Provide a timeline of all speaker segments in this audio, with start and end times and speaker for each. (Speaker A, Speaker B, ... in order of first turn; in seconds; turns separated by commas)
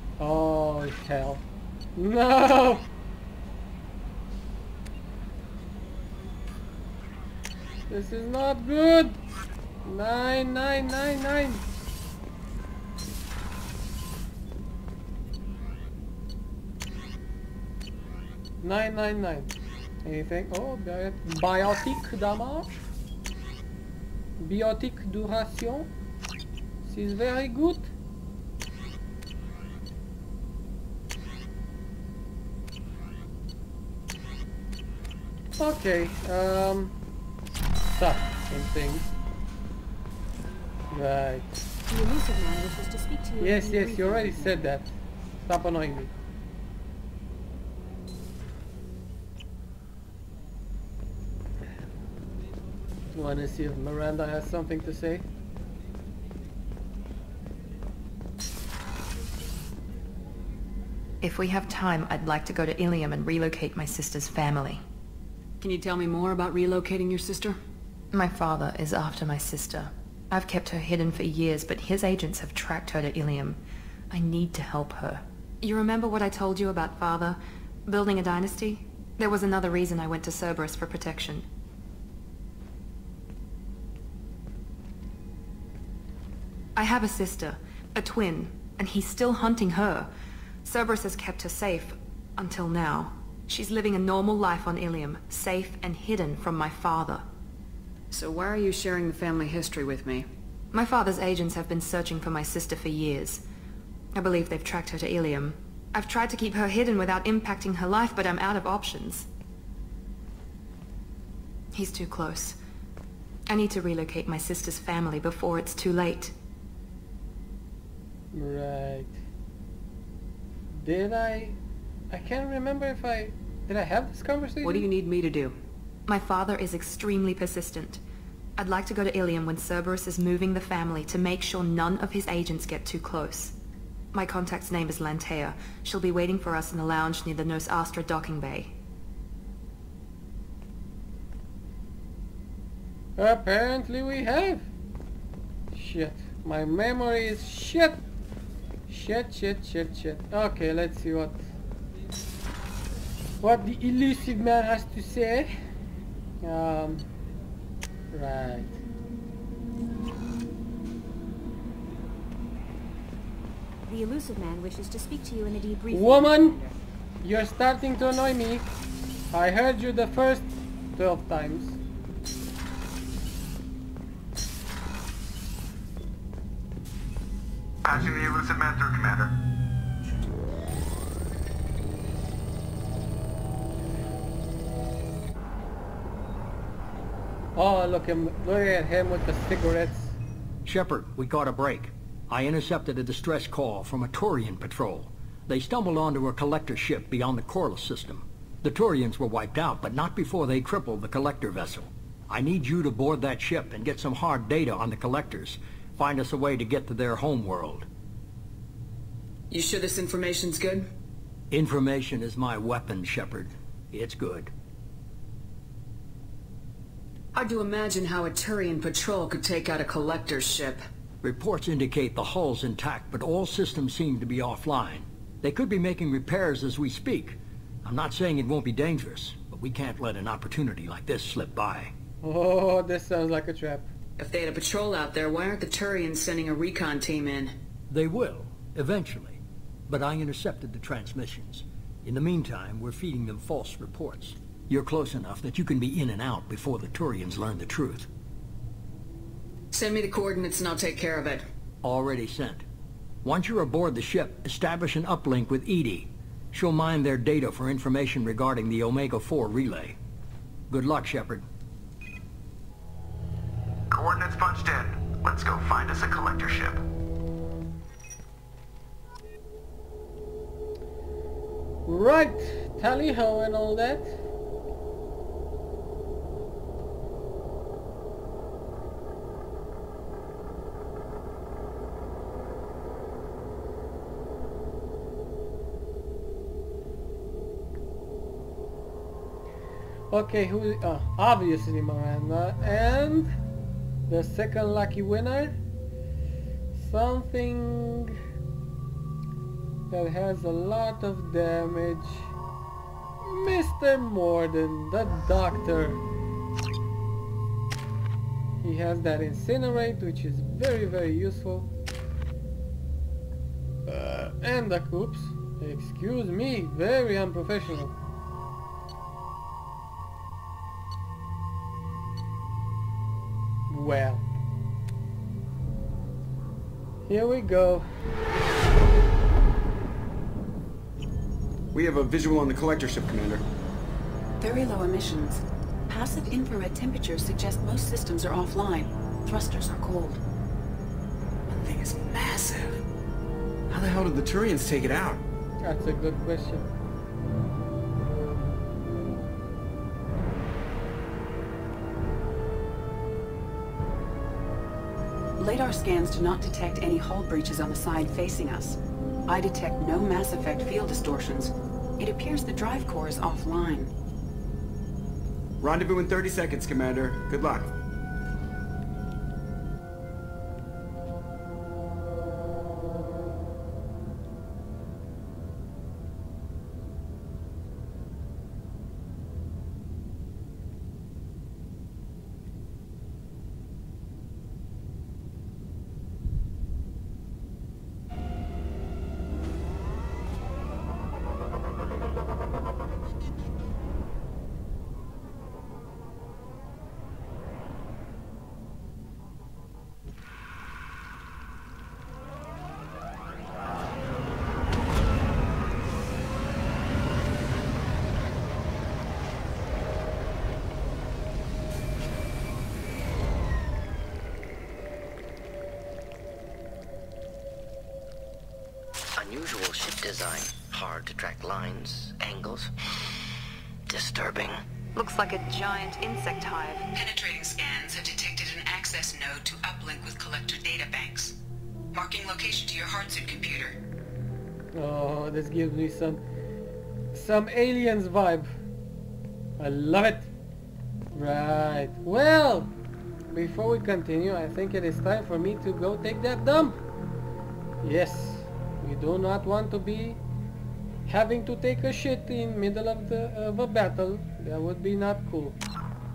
Speaker A: 0.2-1.4, Speaker A: 1.9-2.9, Speaker A: 7.9-9.2, Speaker A: 9.8-11.6, Speaker A: 18.6-19.5, Speaker A: 20.0-22.8, Speaker A: 24.4-25.9, Speaker A: 26.8-27.9, Speaker A: 35.6-36.9, Speaker A: 37.9-39.1, Speaker A: 40.9-41.6, Speaker B: 41.9-44.7, Speaker A: 43.4-46.1, Speaker A: 53.1-55.2, Speaker C: 61.2-64.8, Speaker D: 65.6-67.6, Speaker C: 68.1-73.6, Speaker C: 74.1-81.4, Speaker C: 86.8-90.1, Speaker C: 90.6-97.2, Speaker D: 98.1-100.2, Speaker C: 100.7-103.4, Speaker C: 104.1-109.3, Speaker C: 111.7-112.6, Speaker C: 113.5-116.3, Speaker A: 118.3-119.2, Speaker A: 120.7-121.6, Speaker A: 122.1-124.9, Speaker D: 124.6-125.5, Speaker C: 126.1-128.0, Speaker C: 128.6-133.5, Speaker C: 134.1-138.7, Speaker A: 143.2-144.7, Speaker A: 145.7-148.0, Speaker A: 148.9-151.4, Speaker A: 153.4-155.5, Speaker A: 156.4-157.1, Speaker A: 158.1-158.8, Speaker B: 163.8-166.8, Speaker A: 165.9-166.6, Speaker A: 167.2-168.7, Speaker A: 169.3-171.8, Speaker E: 177.8-179.3, Speaker A: 187.6-190.2, Speaker F: 190.6-207.9, Speaker D: 209.5-210.9, Speaker F: 211.5-214.5, Speaker D: 217.3-220.8, Speaker F: 221.2-231.9, Speaker A: 232.2-233.9, Speaker D: 234.2-237.5, Speaker F: 237.9-248.1, Speaker D: 249.7-251.4, Speaker F: 251.8-252.6, Speaker F: 253.2-260.0, Speaker F: 260.7-261.4, Speaker E: 263.9-266.8, Speaker A: 271.9-274.1, Speaker A: 290.1-293.3, Speaker A: 294.1-295.6, Speaker A: 296.7-298.1, Speaker A: 299.9-302.3, Speaker A: 303.2-306.0, Speaker A: 308.6-311.7, Speaker A: 313.9-317.9, Speaker A: 323.7-324.2, Speaker A: 327.1-327.9, Speaker G: 331.7-333.4, Speaker H: 334.4-340.2, Speaker G: 341.5-342.8, Speaker G: 343.7-345.2, Speaker A: 345.6-346.7, Speaker H: 355.4-363.9, Speaker G: 365.6-367.7, Speaker I: 419.2-422.7, Speaker I: 423.9-424.6, Speaker C: 424.9-426.9, Speaker H: 426.9-431.4, Speaker H: 431.9-433.8, Speaker A: 434.7-436.2, Speaker A: 437.1-438.5, Speaker A: 439.6-440.3, Speaker A: 441.1-442.7, Speaker A: 443.3-446.8, Speaker A: 447.8-450.2, Speaker A: 451.1-455.6